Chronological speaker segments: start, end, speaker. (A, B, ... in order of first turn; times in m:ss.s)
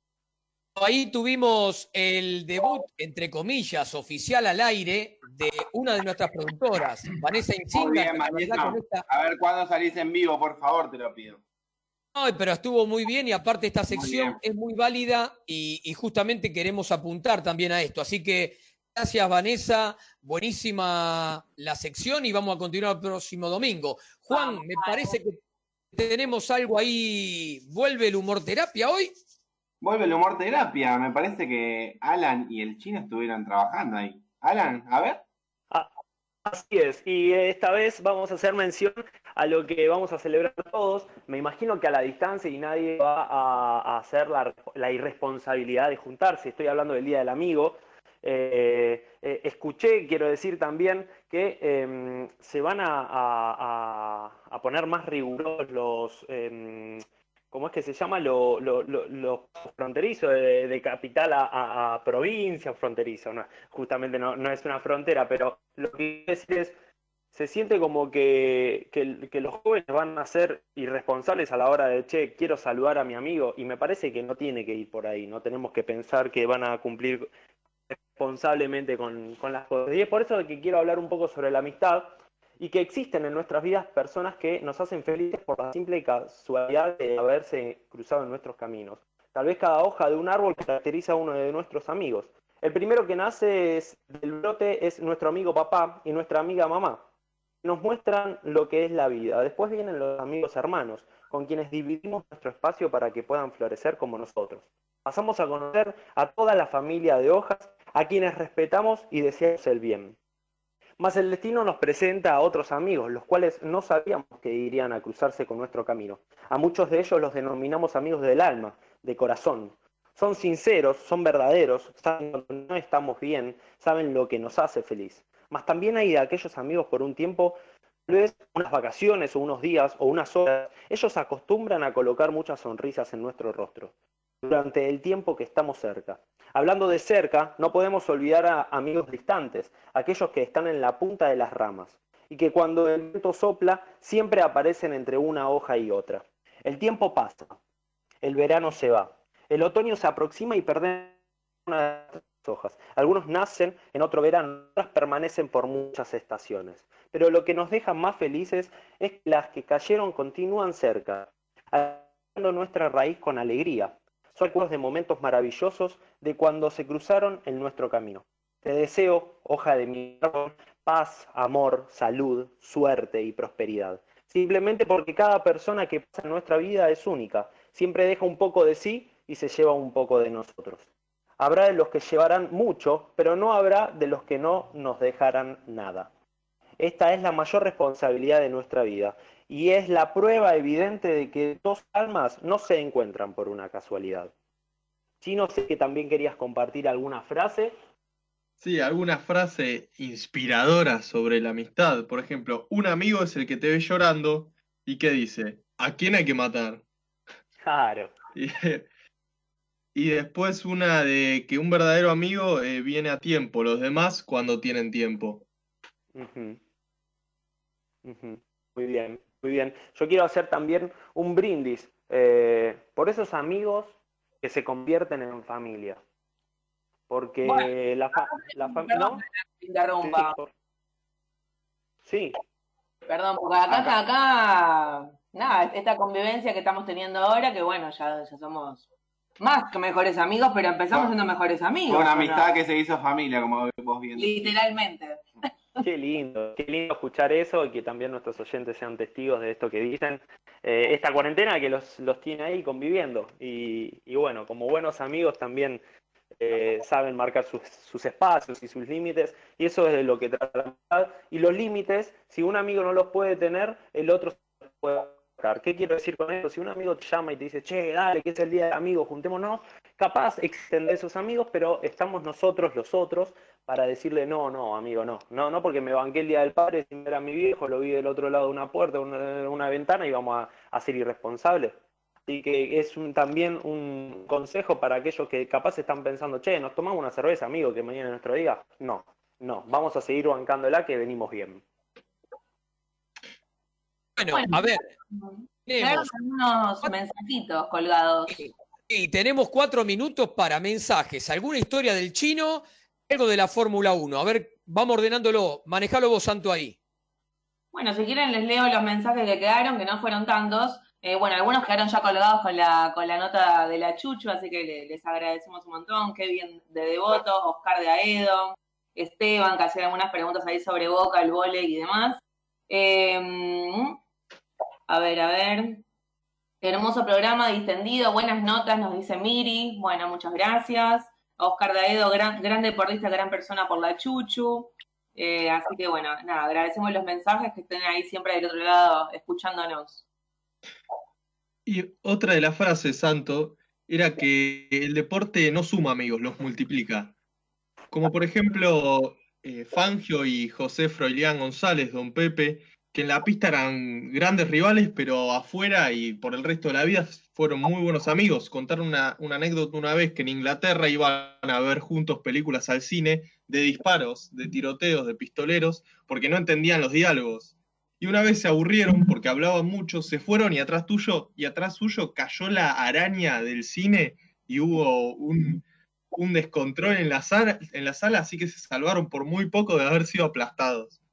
0:00.8-0:09.0 A
0:07.7-0:11.4 B
0:12.1-0:25.4 A
0:13.9-0:14.4 B
0:24.3-0:25.2 C
0:25.9-0:29.1 A
0:29.8-0:35.2 B
0:36.4-1:06.8 D
1:07.3-1:17.3 D
1:17.9-1:37.0 D
1:37.6-1:50.2 D
1:51.0-2:27.6 D
2:28.2-3:06.1 D
3:06.8-3:14.3 D
3:15.2-3:17.8 D
3:18.6-3:26.8 E
3:27.6-3:28.1 D
3:28.3-3:28.9 E
3:29.9-3:35.4 E
3:36.1-3:36.6 D
3:38.0-3:46.0 D
3:47.1-3:49.2 D
3:47.4-3:50.3 C
3:50.0-3:50.5 D
3:52.0-3:52.4 D
3:53.1-3:58.9 C
3:53.7-3:54.0 B
3:59.4-4:02.4 C
4:01.9-4:04.6 B
4:04.2-4:05.2 C
4:05.8-4:15.8 D
4:16.4-4:51.6 D
4:54.2-4:54.9 A
4:54.3-4:58.4 C
4:55.6-4:56.1 A
4:58.3-5:06.8 A
5:07.7-5:24.0 C
5:24.9-5:25.8 C
5:26.6-5:40.0 C
5:41.6-5:47.1 E
5:47.9-6:21.0 E